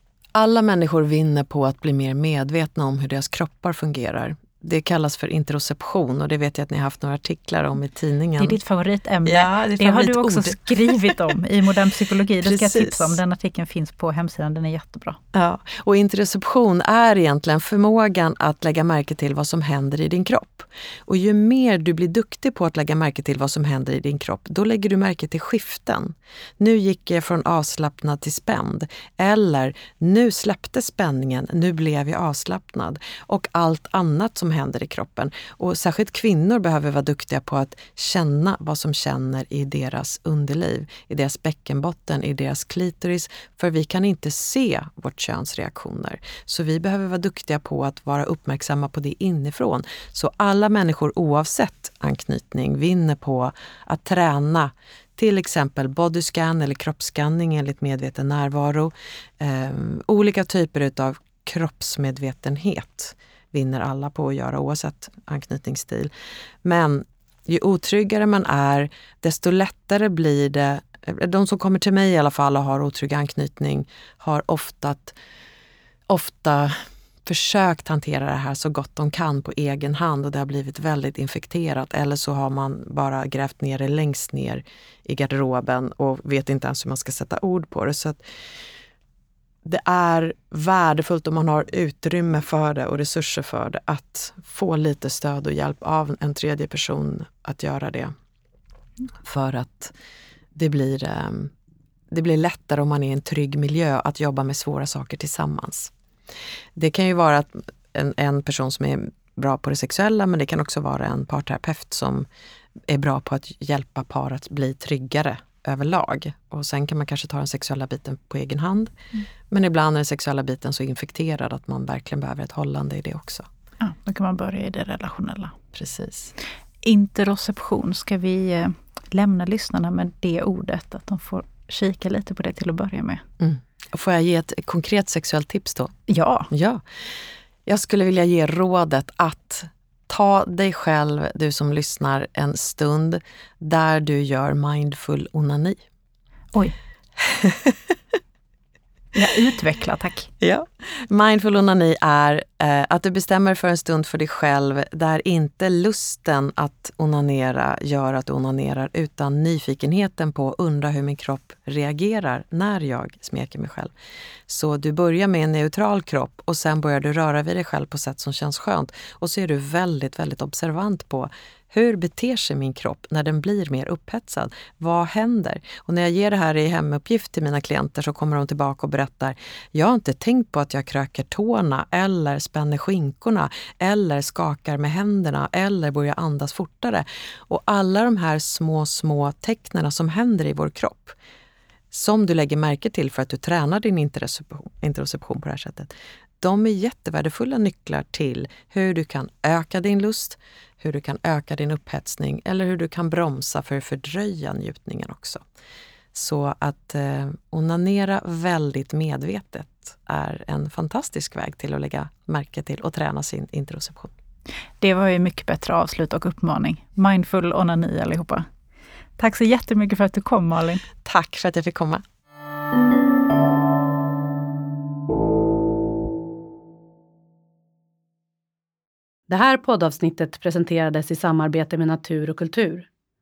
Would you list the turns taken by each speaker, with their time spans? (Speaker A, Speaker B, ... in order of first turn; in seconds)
Speaker A: 0.3-8.6, 9.2-11.2, 12.4-13.2, 15.3-66.1, 66.6-75.2, 76.1-88.2, 89.6-98.1, 99.2-99.9, 100.5-101.5, 102.1-105.9, 106.8-112.3, 112.9-118.9, 119.5-123.5, 125.7-126.3, 133.4-136.0, 136.5-136.8, 137.7-145.8, 147.2-147.9, 150.4-163.9, 164.5-191.2, 191.9-205.4, 206.1-214.1, 221.0-222.0
Speaker B: 8.4-15.2, 123.8-125.6, 126.8-133.2, 136.1-136.5, 149.2-150.3, 214.8-218.5, 219.2-220.8
Speaker C: 229.3-232.9